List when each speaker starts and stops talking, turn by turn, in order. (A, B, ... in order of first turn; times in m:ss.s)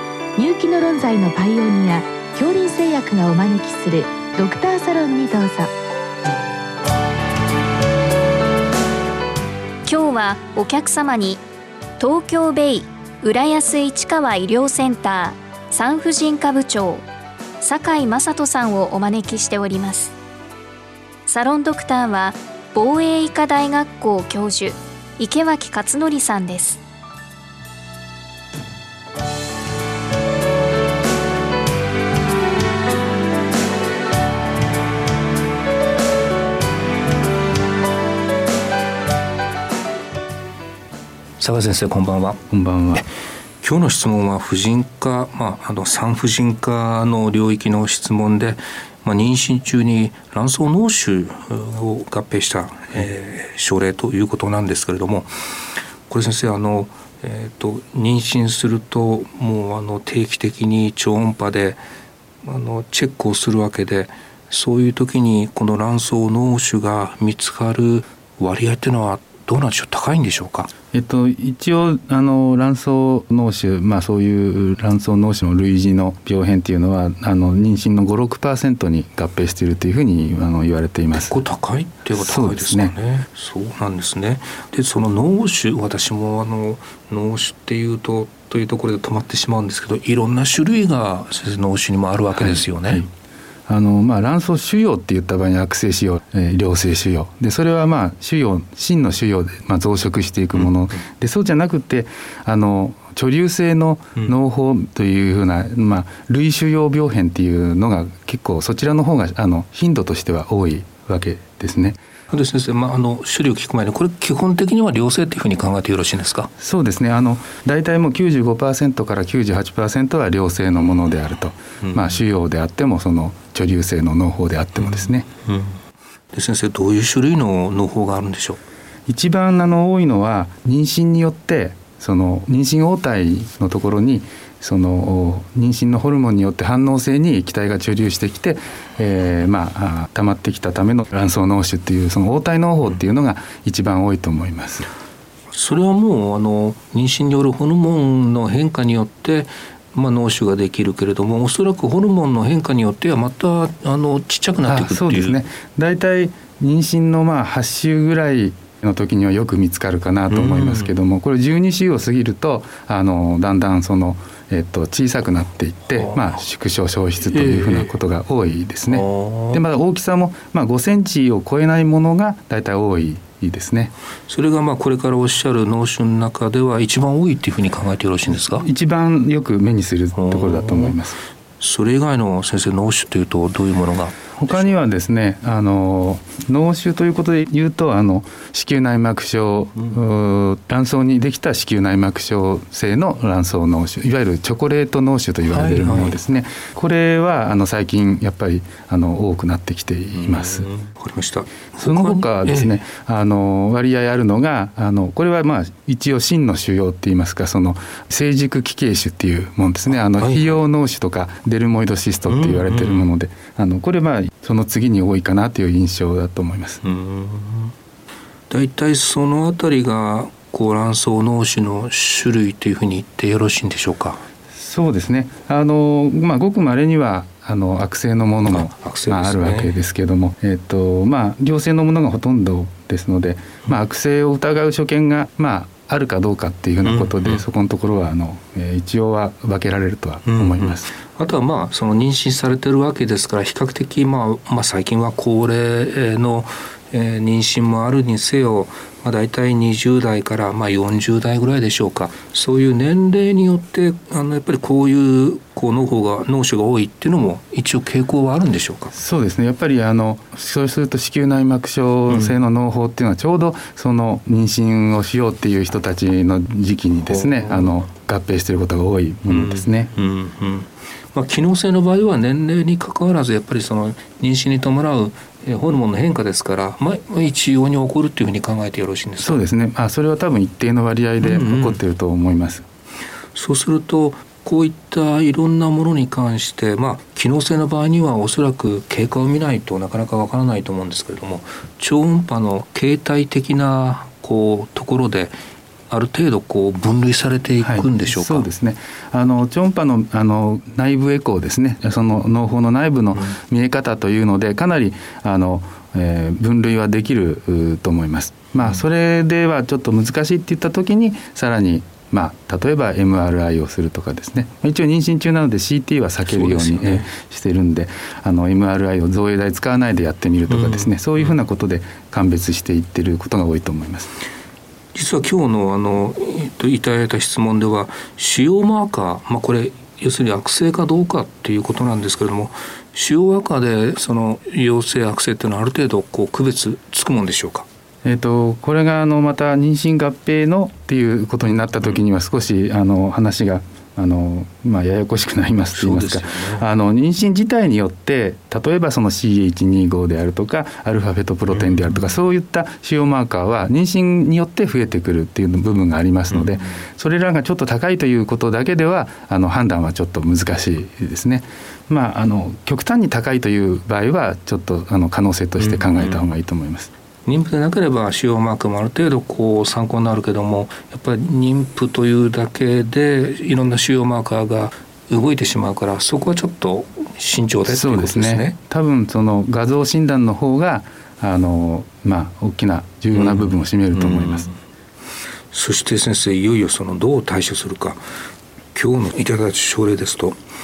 0:00.4-0:05.7 A
0:09.8-0:11.4 B
0:12.0-0:17.0 B
0:17.6-0:20.2 B
0:21.3-0:26.8 B
0:41.4-0:42.4 C
0:42.5-0:43.0 D
0:43.6-0:55.3 C
0:56.1-1:01.8 C
1:02.4-1:10.7 C
1:10.9-1:21.4 D
1:21.1-1:33.0 C
1:22.1-1:22.9 D
1:32.4-1:33.1 D
1:33.7-1:52.0 D
1:52.3-1:56.5 C
1:56.6-2:05.3 D
2:01.8-2:02.2 C
2:04.8-2:05.8 C
2:06.3-2:08.6 C
2:09.1-2:24.9 D
2:25.5-2:35.4 C
2:34.6-2:53.9 D
2:40.3-2:40.9 C
2:45.9-2:46.4 C
2:47.2-2:47.9 C
2:48.9-2:49.6 C
2:54.3-2:58.6 C
2:58.5-3:01.2 D
3:00.2-3:01.0 C
3:01.6-3:04.7 C
3:04.4-3:20.7 D
3:15.5-3:16.2 C
3:20.2-3:22.8 C
3:21.8-3:36.8 D
3:29.9-3:30.6 C
3:32.3-3:33.1 C
3:36.8-3:37.7 C
3:38.5-3:44.2 C
3:44.5-4:00.8 D
3:48.4-3:49.8 C
3:56.8-3:57.4 C
4:00.3-4:18.9 C
4:18.9-4:29.9 D
4:22.1-4:22.3 C
4:27.0-4:27.8 C
4:29.3-4:39.4 C
4:39.2-4:42.6 D
4:41.2-4:41.8 C
4:43.3-4:55.3 C
4:55.9-4:58.5 C
4:57.6-5:24.1 D
5:16.2-5:17.1 C
5:20.5-5:21.3 C
5:24.9-5:37.6 C
5:38.0-6:06.9 D
5:45.7-5:46.6 C
5:51.5-5:52.2 C
5:56.3-5:56.7 C
6:05.6-6:06.2 C
6:07.2-6:18.6 C
6:17.7-6:24.5 D
6:23.1-6:24.6 C
6:25.5-6:28.0 C
6:28.7-6:30.4 C